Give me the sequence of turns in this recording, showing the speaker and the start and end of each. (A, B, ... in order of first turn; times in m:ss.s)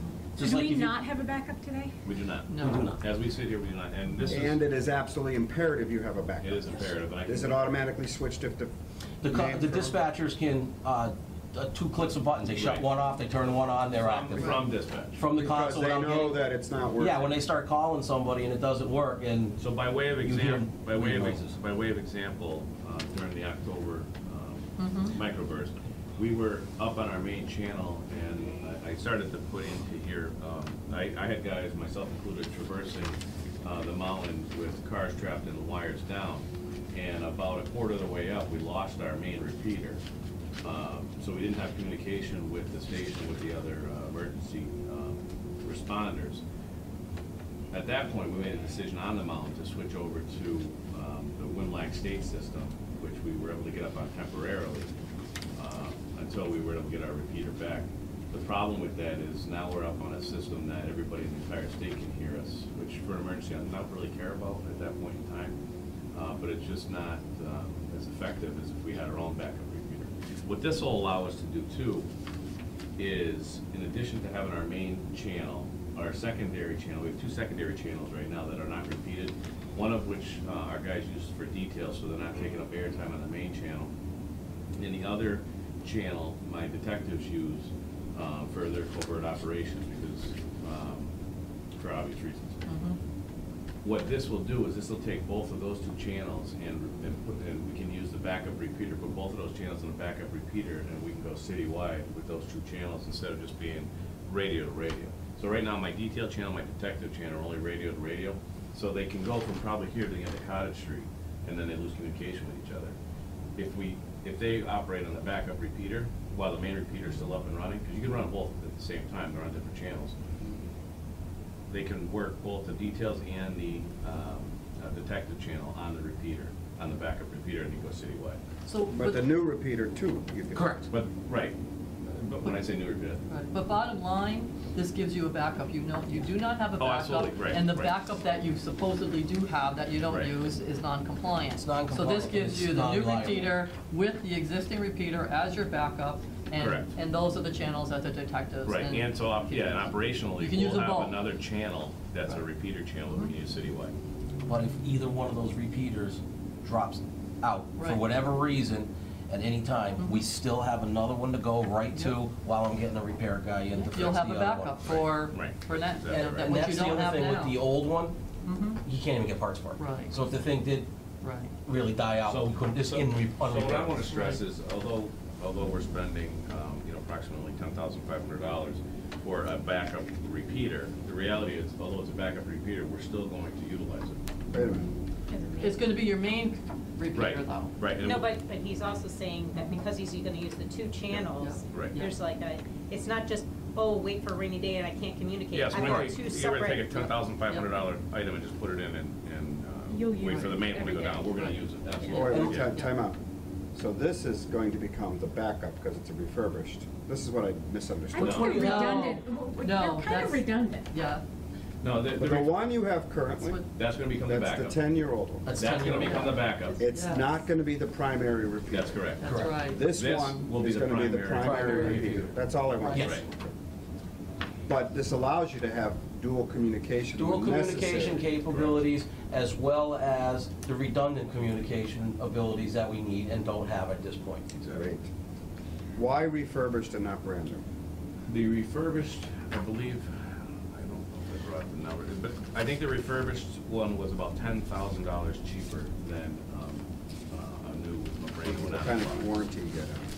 0:00.4-0:01.0 A
0:00.4-0:01.9 B
0:02.0-0:04.6 C
0:02.5-0:02.8 D
0:02.6-0:03.0 A
0:04.2-0:08.7 E
0:06.4-0:07.8 C
0:09.2-0:16.4 A
0:09.2-0:10.0 E
0:12.6-0:12.8 C
0:13.9-0:15.2 C
0:15.3-0:17.4 E
0:17.0-0:19.6 A
0:19.6-0:40.0 C
0:20.2-0:21.6 A
0:24.8-0:25.2 D
0:40.6-0:46.4 C
0:47.7-0:54.9 C
0:55.6-1:05.6 C
1:06.1-1:12.1 C
1:13.0-1:23.9 C
1:24.8-1:31.1 C
1:31.8-1:32.6 C
1:32.7-1:33.0 D
1:33.8-1:53.0 C
1:53.6-2:00.2 C
2:01.7-2:08.4 C
2:08.6-2:09.2 D
2:08.9-2:10.7 E
2:10.5-2:10.9 A
2:10.9-2:13.2 C
2:13.3-2:31.2 D
2:16.8-2:18.0 C
2:21.6-2:23.6 A
2:26.6-2:26.9 C
2:28.6-2:33.9 C
2:34.5-2:44.8 A
2:37.8-2:38.0 D
2:43.8-2:47.6 D
2:44.8-2:46.3 C
2:46.1-2:48.2 A
2:48.5-2:48.8 D
2:48.8-2:50.9 A
2:49.8-2:50.1 D
2:51.2-2:51.5 D
2:51.6-2:54.1 A
2:52.3-3:04.2 C
2:54.1-2:54.4 D
3:04.5-3:04.9 E
3:05.3-3:05.9 F
3:05.6-3:07.8 D
3:07.1-3:08.3 C
3:08.0-3:17.1 F
3:11.1-3:12.0 C
3:11.4-3:12.2 D
3:15.5-3:22.7 C
3:15.7-3:16.1 A
3:19.9-3:21.4 F
3:20.2-3:20.6 D
3:22.1-3:22.9 D
3:22.1-3:23.2 E
3:22.3-3:22.6 A
3:23.8-3:28.8 E
3:28.1-3:30.7 B
3:28.2-3:28.6 C
3:28.2-3:29.0 A
3:28.5-3:31.2 D
3:29.8-3:30.9 F
3:31.8-3:32.7 C
3:32.1-3:33.6 E
3:33.4-3:33.7 D
3:33.7-3:34.8 C
3:34.2-3:43.5 E
3:35.4-3:36.5 A
3:35.5-3:36.9 C
3:36.9-3:37.3 D
3:38.7-3:42.3 C
3:39.2-3:39.9 D
3:39.2-3:39.6 A
3:41.4-3:42.3 A
3:42.9-3:43.2 A
3:42.9-3:43.2 C
3:44.7-3:48.2 E
3:47.2-3:54.4 A
3:48.5-3:48.8 C
3:54.6-3:55.1 E
3:56.0-3:57.6 E
3:58.3-4:09.4 C
4:08.4-4:10.1 E